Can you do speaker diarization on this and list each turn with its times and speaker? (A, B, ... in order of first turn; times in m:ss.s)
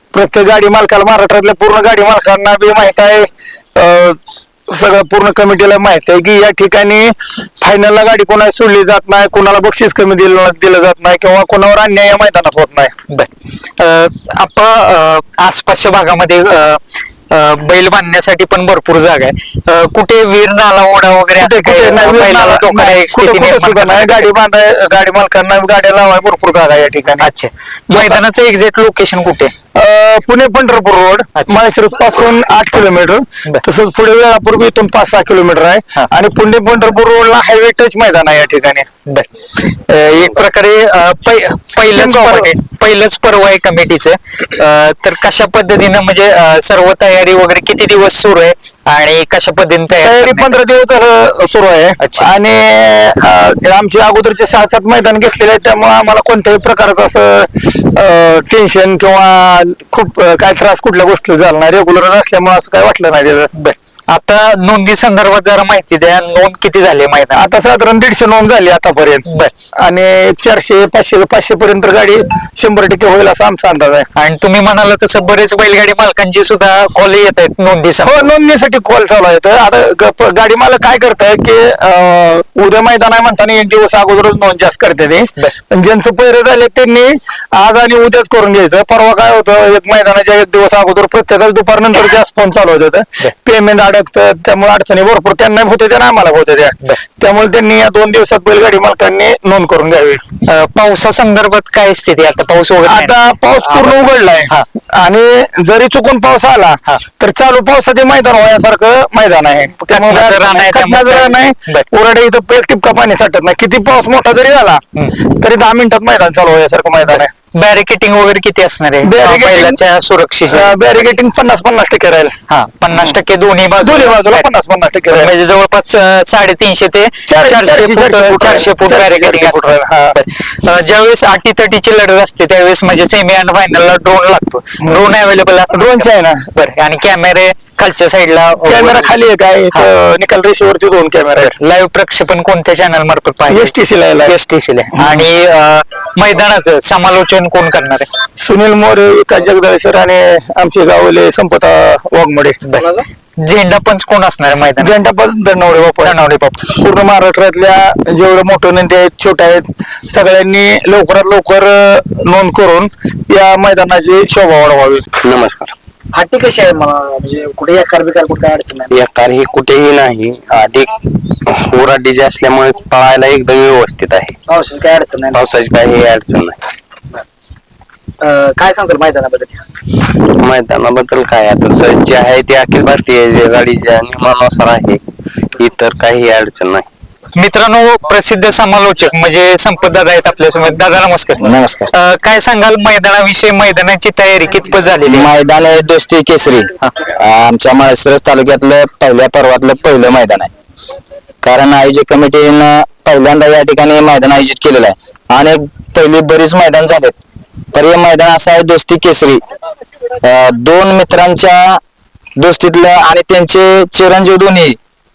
0:00.1-0:12.9 A
0:13.1-0:24.3 B
0:21.4-0:27.3 A
0:27.2-0:29.5 B
0:27.9-0:28.2 A
0:29.8-0:38.9 A
0:39.1-0:50.6 B
0:41.9-0:42.5 A
0:50.0-1:03.5 A
0:52.0-0:52.3 B
1:03.5-1:07.4 B
1:07.4-1:09.2 A
1:09.3-1:09.5 B
1:09.8-1:14.1 A
1:14.2-1:18.3 B
1:18.0-1:40.2 A
1:40.4-1:44.7 B
1:42.8-1:57.3 A
1:49.9-1:51.8 B
1:57.1-2:00.8 B
1:59.0-1:59.8 A
2:00.5-2:02.4 A
2:02.5-2:04.5 B
2:03.8-2:05.3 A
2:05.1-2:19.1 B
2:07.3-2:10.2 A
2:15.7-2:16.5 A
2:18.6-2:21.5 A
2:21.4-2:23.8 B
2:23.5-2:24.4 A
2:24.3-2:28.1 B
2:25.0-2:25.2 A
2:28.4-2:32.6 A
2:32.8-2:33.1 C
2:33.4-2:34.9 B
2:34.8-2:45.1 A
2:36.0-2:36.7 B
2:45.2-2:45.8 D
2:46.1-2:48.9 C
2:48.9-2:50.9 D
2:51.5-2:54.4 D
2:54.5-2:55.4 C
2:55.3-2:56.6 D
2:58.2-2:59.6 C
3:00.3-3:05.0 D
3:05.6-3:06.9 D
3:07.4-3:15.3 B
3:11.4-3:11.9 E
3:15.1-3:20.5 E
3:21.4-3:27.2 E
3:27.7-3:29.4 E
3:30.2-3:31.8 E
3:32.4-3:34.8 E